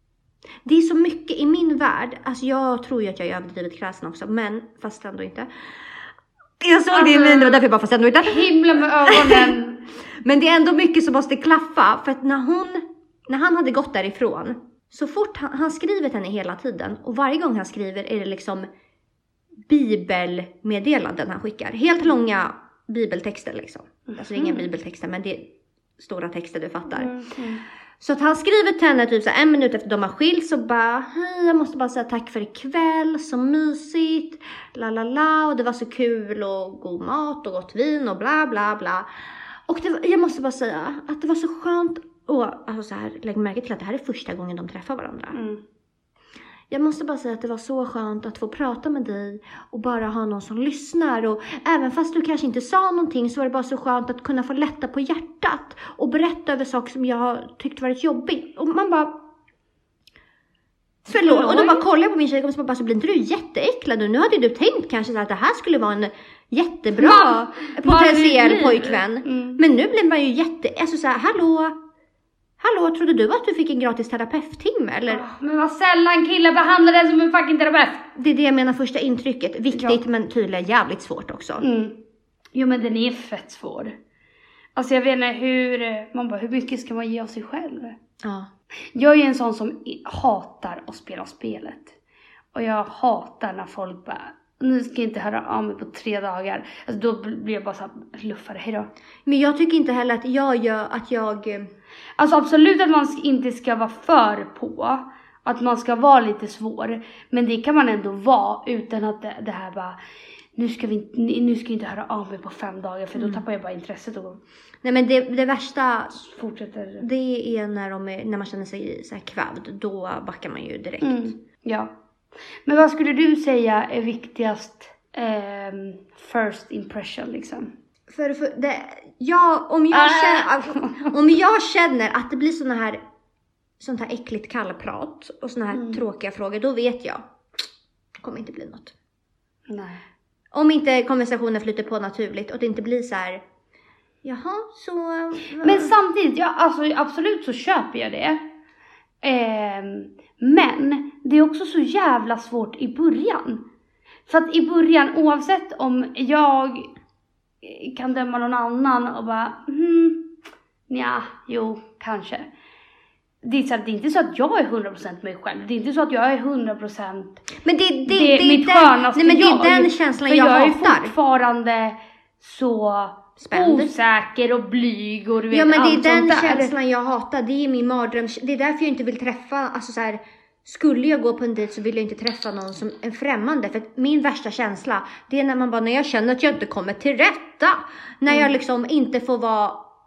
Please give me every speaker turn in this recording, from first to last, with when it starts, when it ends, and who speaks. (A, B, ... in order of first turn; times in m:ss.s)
0:00.6-0:05.5 A
0:06.6-0:08.5 A
0:06.9-0:07.6 B
0:08.2-0:09.8 B
0:09.0-0:09.5 A
0:10.2-0:18.7 A
0:19.7-0:27.1 A
0:24.1-0:24.6 B
0:27.0-0:27.6 B
0:28.0-0:39.1 A
0:39.7-0:45.4 A
0:45.3-0:45.6 B
0:46.7-0:59.2 A
1:01.1-1:01.8 B
1:01.1-1:11.8 A
1:07.0-1:09.6 B
1:12.6-1:15.3 A
1:15.1-1:18.1 B
1:18.2-1:21.6 A
1:19.7-1:20.0 B
1:21.6-1:22.0 B
1:22.5-1:24.0 B
1:24.8-1:28.0 B
1:28.2-1:28.5 A
1:29.0-1:32.0 B
1:32.6-1:38.9 B
1:39.3-1:41.7 A
1:42.2-1:50.0 B
1:50.6-1:54.4 B
1:53.2-1:53.4 A
1:54.8-1:56.2 A
1:56.2-1:57.0 B
1:57.0-2:01.3 A
2:01.0-2:01.9 B
2:02.7-2:07.7 B
2:08.1-2:13.0 A
2:09.9-2:11.1 B
2:13.8-2:17.2 A
2:15.7-2:16.0 B
2:18.2-2:19.0 A
2:19.7-2:20.0 B
2:20.5-2:23.4 A
2:24.2-2:25.9 A
2:25.6-2:28.4 B
2:29.2-2:33.6 B
2:34.3-2:36.9 B
2:37.6-2:40.3 B
2:40.9-2:42.5 B
2:43.4-2:47.4 B
2:47.6-2:51.2 A
2:48.1-2:56.7 B
2:53.4-2:53.9 A
2:55.5-3:09.8 A